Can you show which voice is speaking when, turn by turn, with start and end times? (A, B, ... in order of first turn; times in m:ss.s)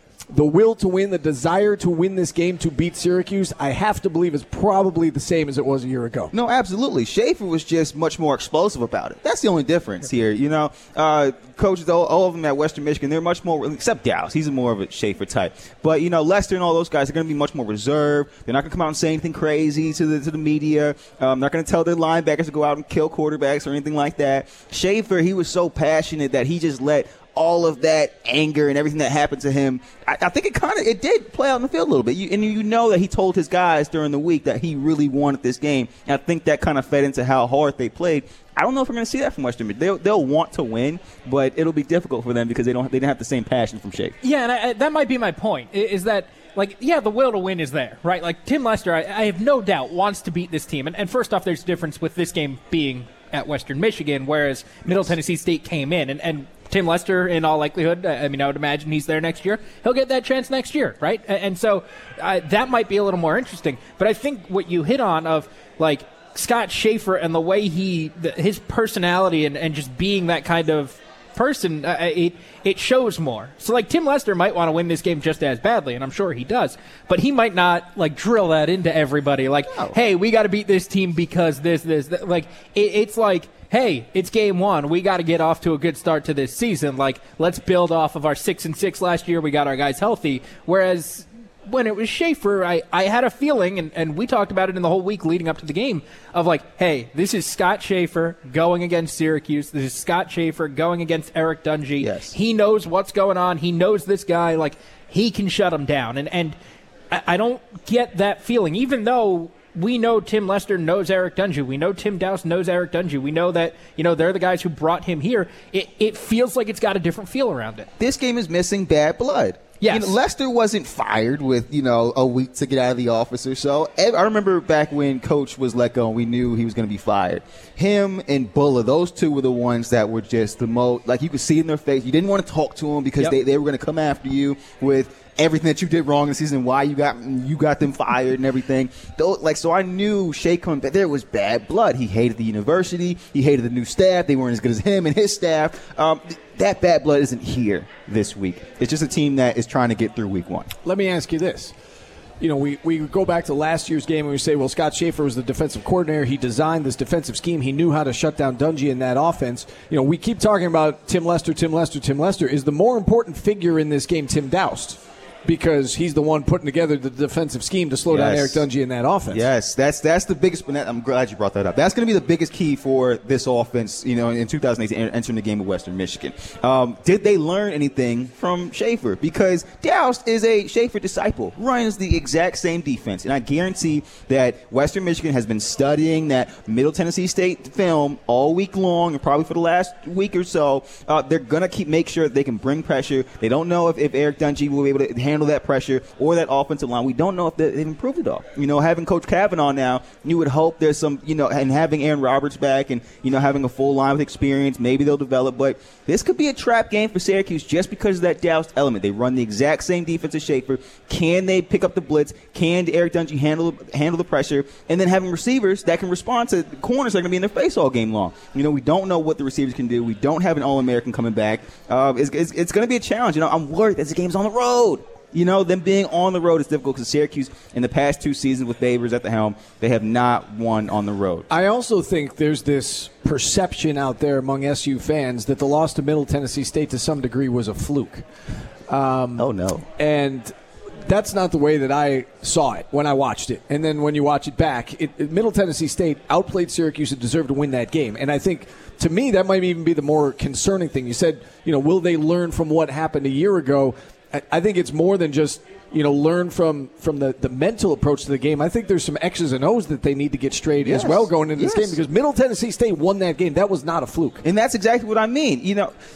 0:00.3-0:06.3 A
0:06.3-0:44.2 B
0:44.2-1:46.6 C
1:42.0-1:42.4 B
1:47.1-1:57.9 C
1:58.0-2:30.7 B
1:59.8-2:00.2 C
2:30.8-2:31.7 A
2:32.4-2:49.5 A
2:48.1-2:48.6 B
2:49.3-3:51.5 B
3:51.5-3:58.2 A
3:58.9-3:59.5 A
3:59.4-3:59.9 B
4:00.0-4:00.5 A
4:01.1-4:24.4 A
4:20.8-4:22.0 B
4:24.4-4:25.9 B